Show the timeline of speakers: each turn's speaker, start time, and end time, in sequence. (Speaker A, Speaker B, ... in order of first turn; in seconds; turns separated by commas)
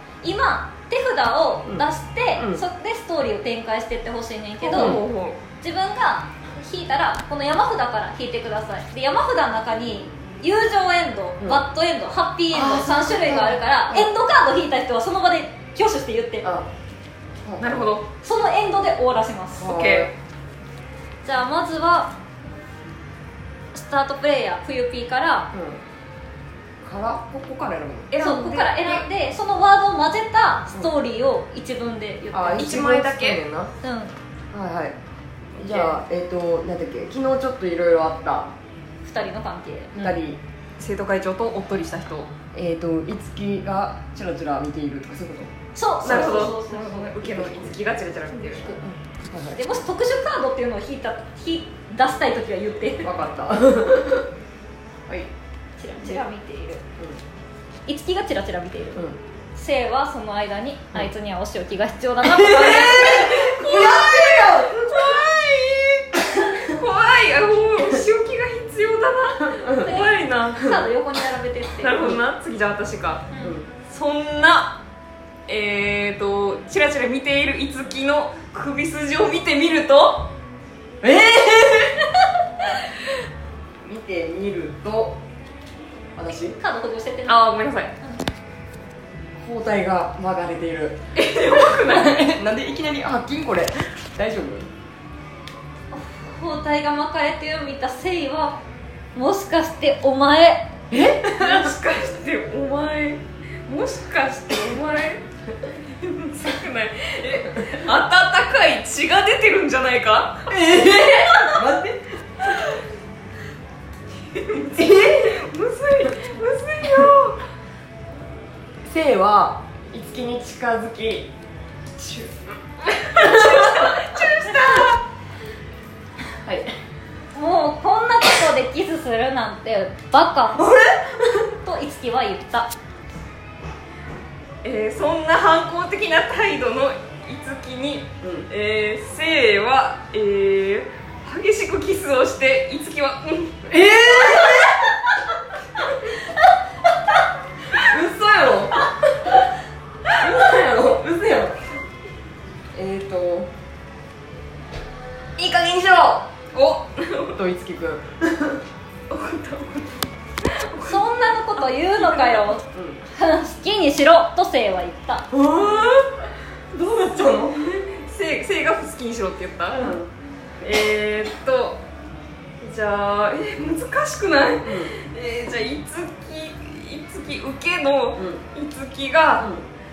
Speaker A: 0.2-5.0, Speaker B: 1.6-2.6, Speaker C: 4.6-5.4, Speaker B: 4.7-5.0, Speaker A: 5.6-16.5, Speaker B: 12.5-14.1, Speaker B: 16.4-16.7, Speaker B: 17.4-17.9, Speaker C: 17.6-18.1, Speaker A: 18.2-19.7, Speaker B: 19.5-20.1, Speaker C: 19.6-20.1, Speaker A: 21.2-22.1, Speaker A: 23.7-25.5, Speaker B: 25.5-25.8, Speaker B: 26.8-28.1, Speaker C: 28.1-29.0, Speaker A: 28.2-32.9, Speaker B: 32.3-33.7, Speaker C: 32.6-33.4, Speaker A: 33.8-34.1, Speaker B: 34.5-35.0, Speaker B: 35.6-38.5, Speaker C: 35.6-36.0, Speaker A: 39.0-40.1, Speaker B: 39.9-40.4, Speaker C: 40.8-42.3, Speaker B: 42.5-46.5, Speaker A: 45.7-47.6, Speaker C: 46.0-48.8, Speaker A: 48.3-48.8, Speaker B: 48.8-49.6, Speaker A: 49.5-53.1, Speaker B: 53.0-54.3, Speaker A: 55.8-56.8, Speaker A: 57.9-63.7, Speaker B: 62.2-64.9, Speaker C: 62.5-70.8, Speaker B: 69.6-70.0, Speaker A: 69.7-72.1, Speaker C: 71.8-73.3, Speaker A: 73.3-73.6, Speaker B: 73.4-73.7, Speaker C: 73.8-74.8, Speaker C: 75.5-80.3, Speaker B: 81.0-82.0, Speaker B: 83.8-85.2, Speaker B: 86.2-86.6, Speaker A: 86.3-88.2, Speaker C: 87.2-87.9, Speaker B: 89.4-91.0, Speaker C: 91.1-92.3, Speaker B: 91.8-94.7, Speaker A: 95.9-98.6, Speaker A: 99.1-100.7, Speaker B: 100.9-101.7, Speaker C: 101.2-105.2, Speaker C: 106.0-110.5, Speaker B: 110.5-112.5, Speaker A: 110.8-111.7, Speaker C: 114.3-117.4, Speaker B: 114.7-115.4, Speaker B: 118.8-121.3, Speaker C: 122.9-125.0, Speaker B: 123.0-123.9, Speaker B: 126.4-126.7, Speaker A: 127.3-130.6, Speaker B: 130.6-131.4, Speaker A: 131.6-132.7, Speaker C: 134.6-143.7, Speaker B: 138.2-138.5, Speaker B: 143.7-144.8, Speaker B: 147.7-149.2, Speaker B: 150.1-151.6, Speaker B: 152.7-153.5, Speaker B: 155.4-156.3, Speaker C: 156.5-157.4, Speaker B: 157.3-158.6, Speaker C: 159.1-162.6, Speaker A: 160.8-165.3, Speaker B: 162.7-163.0, Speaker B: 165.3-166.1, Speaker B: 166.7-167.5, Speaker C: 167.2-169.9, Speaker B: 169.7-170.1, Speaker C: 170.6-171.8, Speaker C: 172.6-179.5, Speaker B: 174.6-174.9, Speaker B: 178.2-178.4, Speaker B: 179.4-179.7